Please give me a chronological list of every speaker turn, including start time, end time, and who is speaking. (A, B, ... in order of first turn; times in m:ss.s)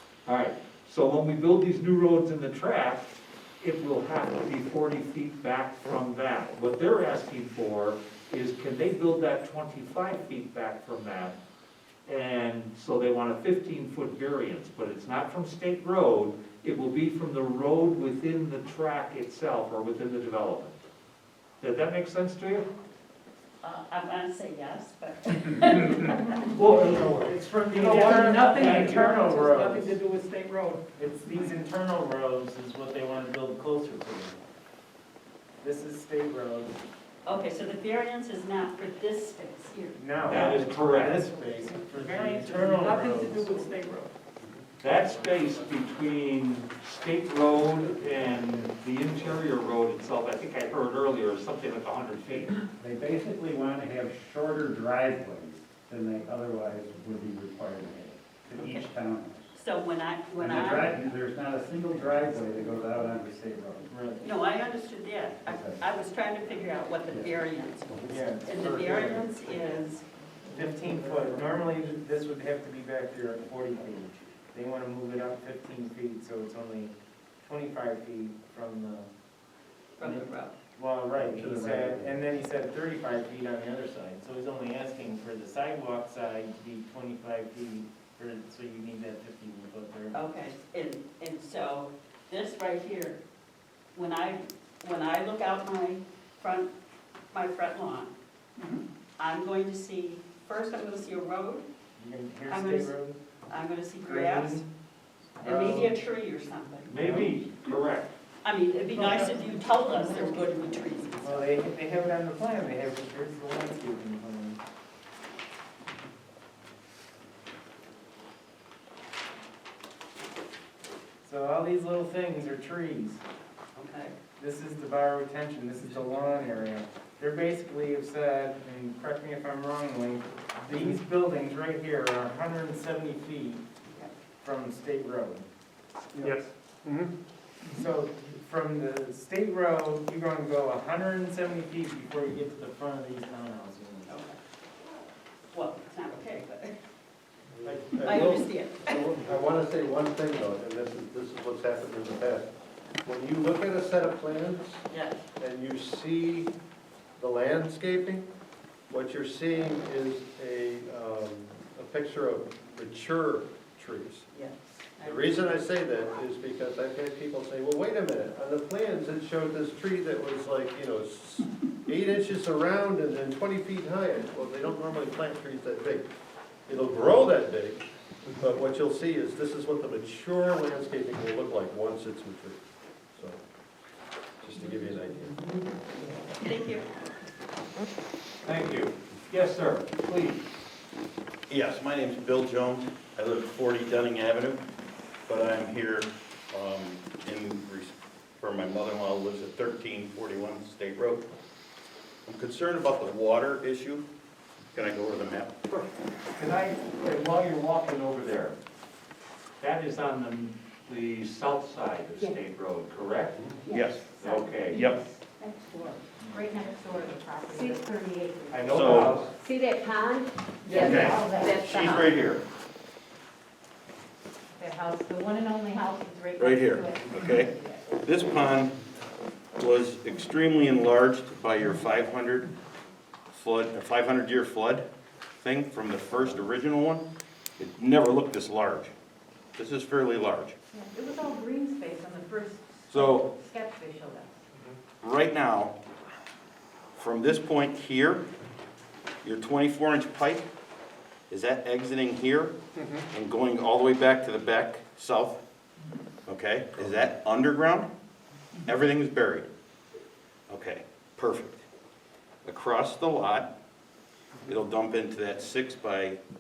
0:00.2-0:11.4 A
0:12.0-0:20.8 A
0:21.6-0:22.6 A
0:23.6-0:26.4 B
0:26.4-0:29.3 A
0:27.3-0:30.7 C
0:27.5-0:30.0 D
0:31.0-0:34.4 D
0:35.6-0:36.8 D
0:37.2-0:40.6 B
0:40.0-0:43.8 D
0:40.2-0:41.3 A
0:42.0-0:44.1 C
0:44.8-0:52.5 A
0:45.0-0:45.7 E
0:52.8-0:59.5 F
0:59.5-1:01.1 B
1:00.4-1:03.8 F
1:03.8-1:04.3 D
1:04.2-1:10.0 B
1:05.4-1:05.8 F
1:07.1-1:07.4 F
1:07.9-1:08.2 F
1:08.1-1:09.4 D
1:10.4-1:19.1 D
1:20.0-1:20.5 B
1:20.0-1:30.2 D
1:21.2-1:22.2 F
1:30.1-1:33.2 B
1:33.9-1:36.7 B
1:37.3-1:38.1 B
1:39.2-1:41.6 B
1:42.0-1:43.2 D
1:42.5-1:42.9 B
1:43.5-1:44.6 B
1:44.0-1:44.6 D
1:45.4-1:46.9 B
1:45.4-1:46.0 D
1:46.9-1:48.1 A
1:47.0-1:47.3 D
1:48.4-1:51.5 B
1:49.0-1:49.4 D
1:51.2-1:54.6 D
2:01.2-2:03.2 D
2:03.8-2:04.2 B
2:04.4-2:13.6 D
2:14.4-2:15.4 D
2:17.7-2:24.1 D
2:24.1-2:24.4 B
2:25.5-2:26.7 B
2:27.5-2:32.5 E
2:27.6-2:28.4 D
2:28.0-2:29.0 B
2:33.0-2:34.8 E
2:34.9-2:35.2 B
2:35.4-2:36.5 E
2:37.2-2:38.2 E
2:38.9-2:44.2 E
2:44.3-2:45.4 B
2:45.0-2:56.1 E
2:56.7-2:57.8 E
2:58.4-3:02.6 E
3:04.4-3:05.4 E
3:06.4-3:06.8 B
3:08.4-3:10.4 A
3:11.5-3:14.6 G
3:15.3-3:21.3 G
3:22.2-3:24.0 G
3:24.7-3:25.5 G
3:25.7-3:28.6 A
3:29.6-3:34.8 A
3:33.6-3:35.0 G
3:33.7-3:34.0 H
3:34.6-3:42.2 H
3:38.5-3:39.4 A
3:38.7-3:39.2 G
3:40.6-3:42.4 G
3:44.5-3:47.9 H
3:46.4-3:48.7 G
3:49.6-3:52.5 G
3:53.3-3:54.8 G
3:55.4-3:57.1 G
3:57.6-3:58.9 G
3:59.6-4:00.6 G
4:00.7-4:04.4 H
4:02.9-4:03.3 G
4:05.0-4:05.8 G
4:07.0-4:08.2 G
4:09.2-4:10.4 G
4:11.3-4:12.6 G
4:13.1-4:15.4 G
4:16.2-4:17.9 G
4:18.6-4:19.5 G
4:20.5-4:21.6 G
4:22.4-4:23.5 G
4:24.5-4:26.2 G